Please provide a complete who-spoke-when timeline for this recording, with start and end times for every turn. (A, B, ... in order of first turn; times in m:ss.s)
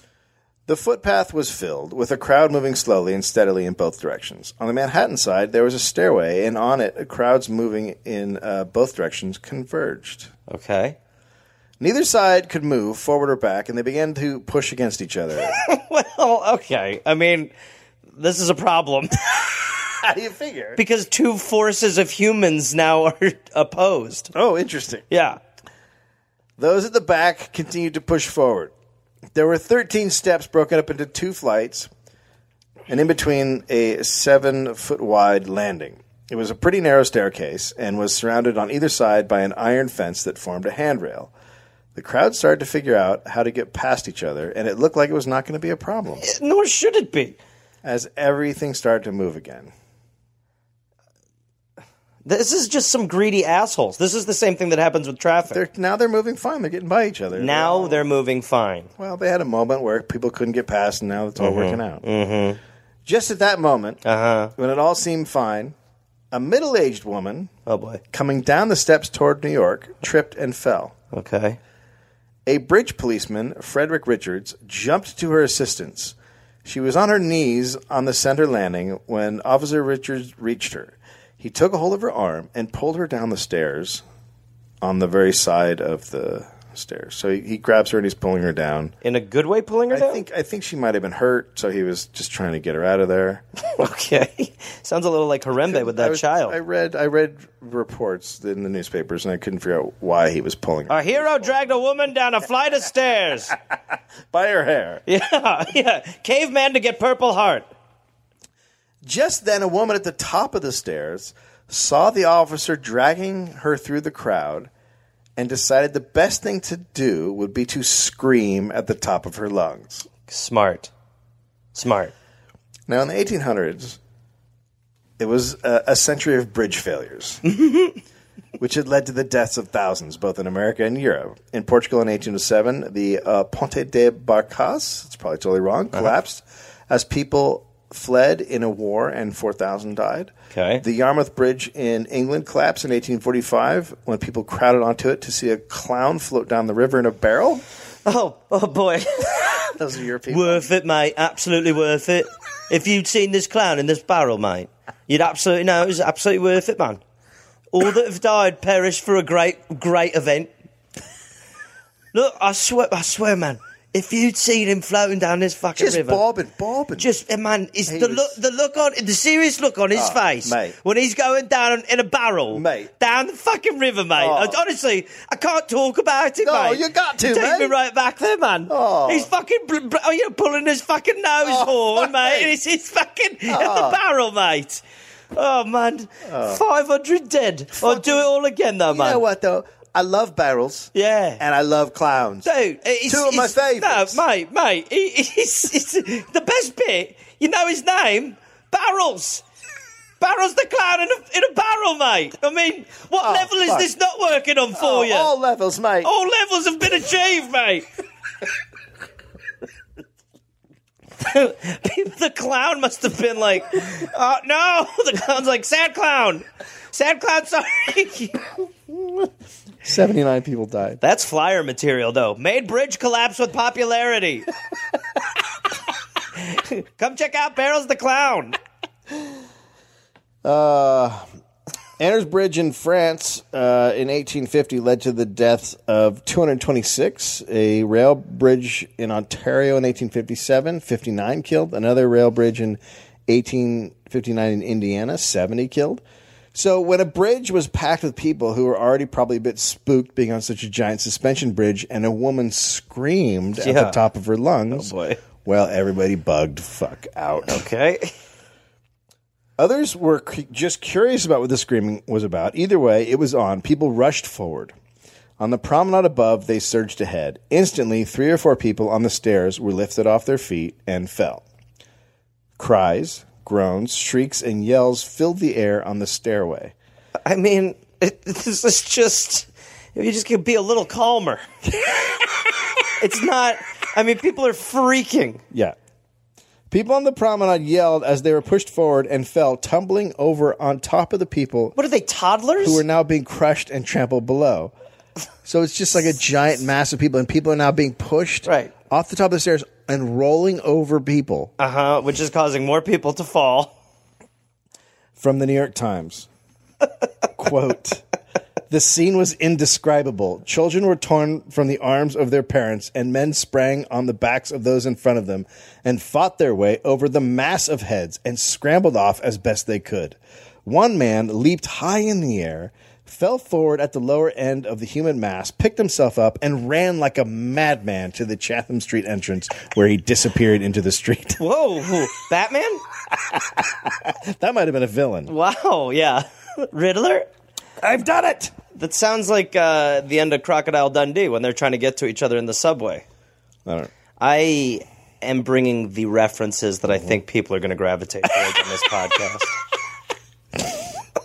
0:00.7-0:10.3 A
0:10.5-0:11.0 B
0:11.8-0:15.6 A
0:15.4-0:17.5 B
0:18.1-0:20.0 B
0:20.0-0:20.8 A
0:20.8-0:24.3 B
0:24.3-0:25.0 A
0:25.1-0:25.4 B
0:26.6-0:28.7 A
0:29.3-0:31.9 A
0:32.9-0:41.3 A
0:41.9-0:46.3 A
0:46.2-0:47.4 B
0:47.8-0:49.7 A
0:52.2-0:55.6 B
0:55.5-0:58.1 A
0:57.3-0:58.9 B
0:59.0-1:02.0 A
1:01.4-1:02.6 B
1:03.0-1:04.0 A
1:04.0-1:04.5 B
1:04.6-1:05.7 A
1:06.3-1:07.5 A
1:07.6-1:08.0 B
1:08.1-1:10.9 A
1:11.1-1:11.6 B
1:12.4-1:24.0 A
1:24.8-1:28.9 A
1:29.0-1:30.2 B
1:29.9-1:33.4 A
1:33.7-1:36.6 B
1:35.6-1:41.7 A
1:40.9-1:43.5 B
1:44.3-1:45.0 A
1:45.1-1:47.7 B
1:49.0-1:54.7 A
1:55.4-2:00.1 A
2:00.3-2:00.9 B
2:01.7-2:02.1 B
2:02.9-2:04.0 A
2:05.2-2:07.4 A
2:07.5-2:08.0 B
2:08.6-2:27.6 A
2:20.5-2:20.8 B
2:28.0-2:29.8 B
2:29.6-2:30.7 A
2:30.3-2:37.0 B
2:37.7-2:40.5 B
2:42.1-2:46.2 B
2:45.8-2:47.1 A
2:47.0-3:09.2 B
2:47.9-2:48.4 A
2:49.9-2:50.7 A
2:52.5-2:52.9 A
2:54.2-2:54.6 A
2:56.4-2:57.7 A
2:58.7-2:59.3 A
3:01.4-3:02.5 A
3:03.5-3:04.0 A
3:06.2-3:06.6 A
3:07.7-3:08.2 A
3:08.9-3:12.5 A
3:10.9-3:11.4 B
3:12.4-3:19.4 B
3:13.0-3:14.2 A
3:20.2-3:25.3 B
3:23.2-3:23.9 A
3:24.7-3:26.1 A
3:26.0-3:27.8 B
3:31.2-3:38.5 B
3:39.8-3:41.0 A
3:41.0-3:44.4 B
3:46.3-3:48.6 B
3:50.4-3:51.2 A
3:52.0-4:06.0 A
4:06.5-4:17.6 A
4:13.6-4:14.0 B
4:14.7-4:15.2 B
4:17.4-4:18.1 B
4:19.6-4:24.7 A
4:25.4-4:31.4 A
4:32.6-4:36.7 A
4:37.2-4:41.4 B
4:41.6-4:42.5 A
4:43.0-4:45.4 B
4:46.7-4:51.7 A
4:51.8-4:52.8 B
4:52.6-4:54.7 A
4:55.4-5:01.5 A
4:58.4-4:58.7 B
5:01.6-5:03.7 B
5:05.2-5:06.3 A
5:07.4-5:08.0 A
5:08.7-5:31.4 A
5:31.4-5:32.8 B
5:33.1-5:35.3 A
5:35.3-5:37.3 B
5:37.8-5:38.5 A
5:38.7-5:43.0 B
5:44.2-5:49.5 B